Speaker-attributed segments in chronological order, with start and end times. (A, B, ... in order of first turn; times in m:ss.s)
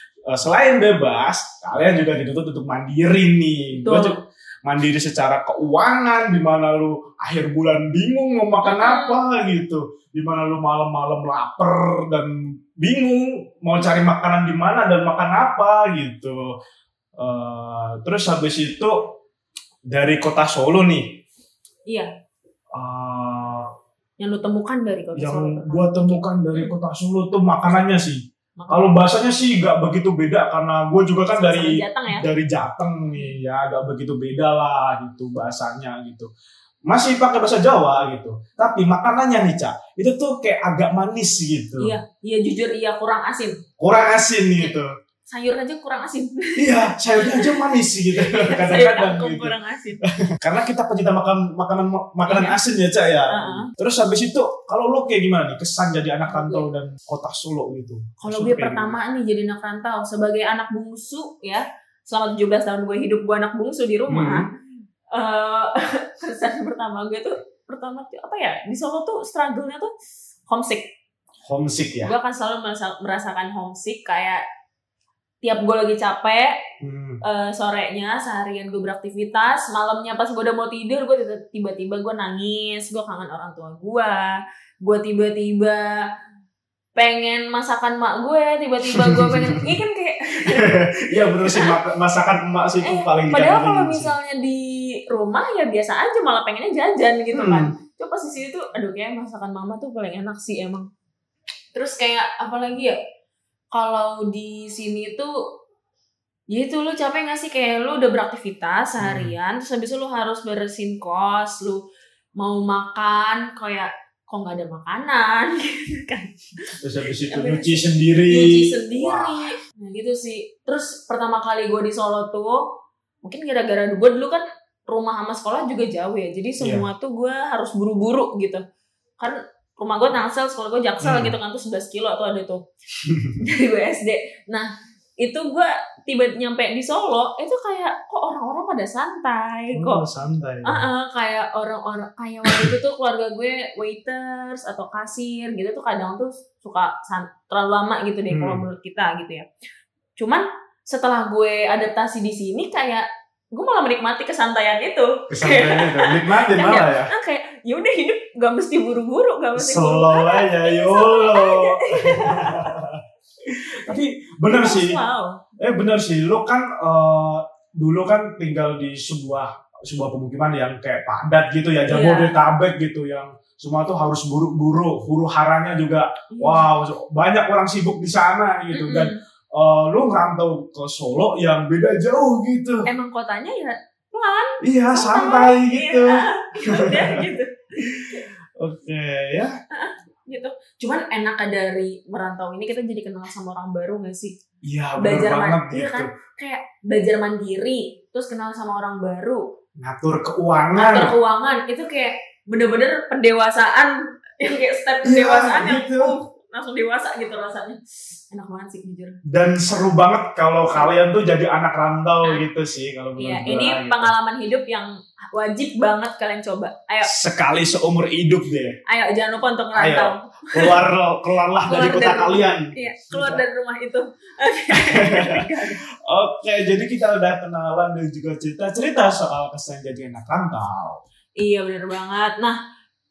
0:00.3-0:16.4 A
0:03.7-0:04.2 B
0:08.6-0:09.2 B
0:17.2-0:18.9 A
0:19.9-0:21.0 A
0:22.8-0:23.7 A
0:24.2-0:26.7 B
0:25.1-0:36.3 A
0:28.6-0:29.0 B
0:31.3-0:32.2 B
0:36.9-0:42.0 A
0:41.8-0:43.6 B
0:43.8-0:44.9 A
0:45.3-0:50.0 B
0:46.6-0:49.5 A
0:50.4-0:59.0 A
0:52.2-0:52.6 B
0:53.3-0:53.7 B
0:56.2-0:56.7 B
0:58.2-1:04.5 B
1:04.1-1:04.4 A
1:05.1-1:09.9 B
1:10.5-1:10.8 B
1:11.5-1:12.1 A
1:12.0-1:14.4 B
1:15.4-1:16.5 B
1:16.8-1:17.2 A
1:17.2-1:24.3 B
1:24.8-1:26.0 B
1:27.0-1:30.7 B
1:29.0-1:29.7 A
1:30.5-1:34.1 A
1:31.4-1:31.7 B
1:32.8-1:40.9 B
1:37.4-1:37.7 A
1:41.7-1:43.0 B
1:43.7-1:45.3 B
1:46.5-1:51.8 B
1:49.0-1:49.3 A
1:52.4-1:56.3 B
1:56.8-1:59.5 A
1:57.3-2:02.6 B
2:03.2-2:08.6 B
2:06.6-2:06.8 A
2:09.2-2:12.6 B
2:11.0-2:11.4 A
2:13.0-2:13.4 A
2:13.4-2:14.7 B
2:15.2-2:20.0 B
2:19.7-2:20.8 A
2:20.6-2:29.4 B
2:22.5-2:22.7 A
2:28.3-2:28.6 A
2:30.2-2:42.7 B
2:35.3-2:37.1 A
2:39.6-2:45.0 A
2:44.5-2:45.4 B
2:45.6-3:02.8 A
2:51.9-2:52.3 B
2:56.3-2:56.7 B
2:58.7-2:59.2 B
3:02.8-3:08.3 B
3:04.6-3:07.2 A
3:07.8-3:09.5 A
3:09.7-3:14.4 B
3:14.6-3:16.1 A
3:15.0-3:19.4 B
3:19.8-3:21.1 A
3:20.7-3:29.2 B
3:25.0-3:26.1 A
3:29.3-3:34.1 A
3:33.2-3:37.1 B
3:37.0-3:38.8 A
3:38.9-3:40.8 B
3:39.8-3:43.4 A
3:41.6-3:45.8 B
3:44.7-3:45.5 A
3:46.0-3:51.0 A
3:51.4-3:52.6 B